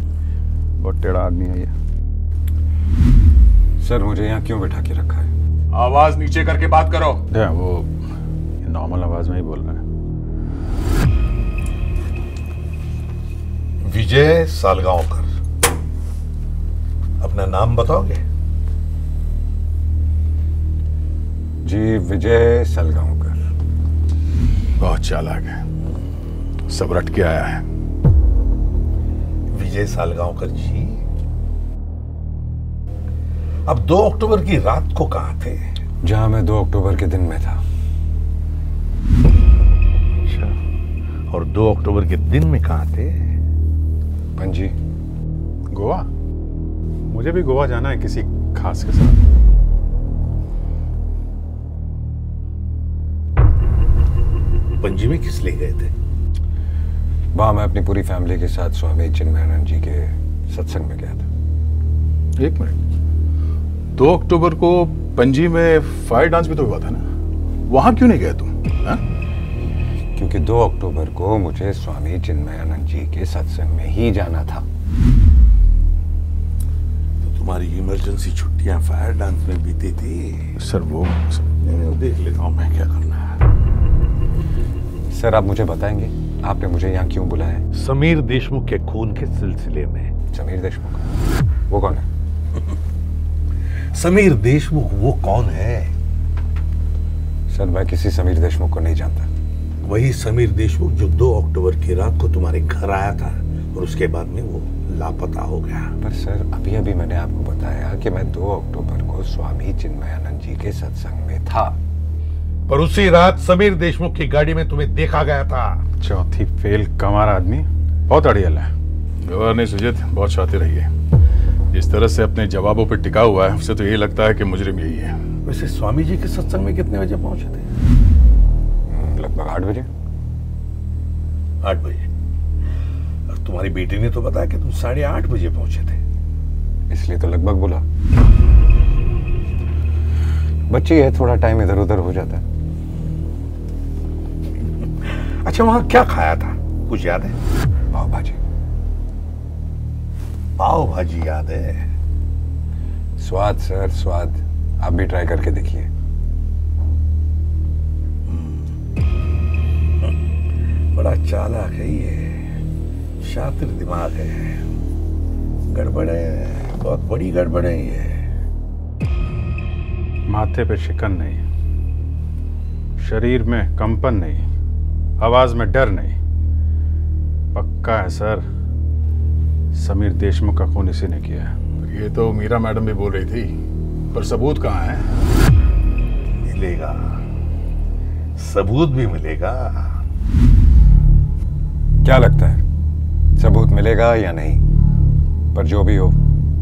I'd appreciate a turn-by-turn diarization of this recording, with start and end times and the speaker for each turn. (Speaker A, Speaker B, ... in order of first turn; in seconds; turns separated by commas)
Speaker A: 0.8-1.7, Speaker B: 3.8-5.3, Speaker C: 5.7-7.2, Speaker A: 7.3-7.9, Speaker A: 8.6-9.8, Speaker D: 13.8-15.3, Speaker D: 17.2-18.2, Speaker B: 21.6-23.4, Speaker C: 24.8-25.6, Speaker C: 26.7-27.6, Speaker D: 29.5-31.0, Speaker D: 33.7-35.6, Speaker B: 36.0-37.6, Speaker D: 40.2-40.6, Speaker D: 41.3-43.3, Speaker B: 44.4-44.8, Speaker A: 45.7-46.1, Speaker A: 47.1-49.2, Speaker D: 54.8-55.9, Speaker B: 57.3-61.3, Speaker C: 62.4-62.7, Speaker C: 64.0-67.0, Speaker C: 67.7-69.0, Speaker B: 70.2-74.7, Speaker D: 77.2-80.6, Speaker C: 80.6-81.4, Speaker D: 81.6-83.4, Speaker B: 85.1-87.7, Speaker D: 87.7-90.1, Speaker B: 90.3-91.0, Speaker B: 91.7-92.1, Speaker D: 93.9-95.9, Speaker B: 97.5-99.3, Speaker D: 99.8-105.9, Speaker B: 106.0-111.8, Speaker D: 112.7-115.8, Speaker A: 116.0-118.7, Speaker C: 119.2-120.9, Speaker C: 121.7-125.2, Speaker D: 125.4-127.7, Speaker B: 128.9-129.9, Speaker D: 131.6-132.1, Speaker D: 133.3-136.0, Speaker B: 136.9-137.8, Speaker B: 140.7-142.4, Speaker D: 145.0-147.4, Speaker B: 147.9-148.4, Speaker D: 150.6-151.8, Speaker B: 153.2-155.9, Speaker D: 158.3-158.7, Speaker D: 160.9-162.4, Speaker D: 163.2-164.6, Speaker D: 165.7-168.2, Speaker A: 170.3-171.4, Speaker A: 173.0-174.4, Speaker A: 175.2-176.2, Speaker A: 177.5-178.4, Speaker A: 179.7-181.5, Speaker C: 181.8-183.5, Speaker C: 184.1-185.1, Speaker D: 186.4-187.2, Speaker D: 188.4-190.0, Speaker B: 192.0-192.6, Speaker B: 193.4-194.6, Speaker B: 195.5-196.2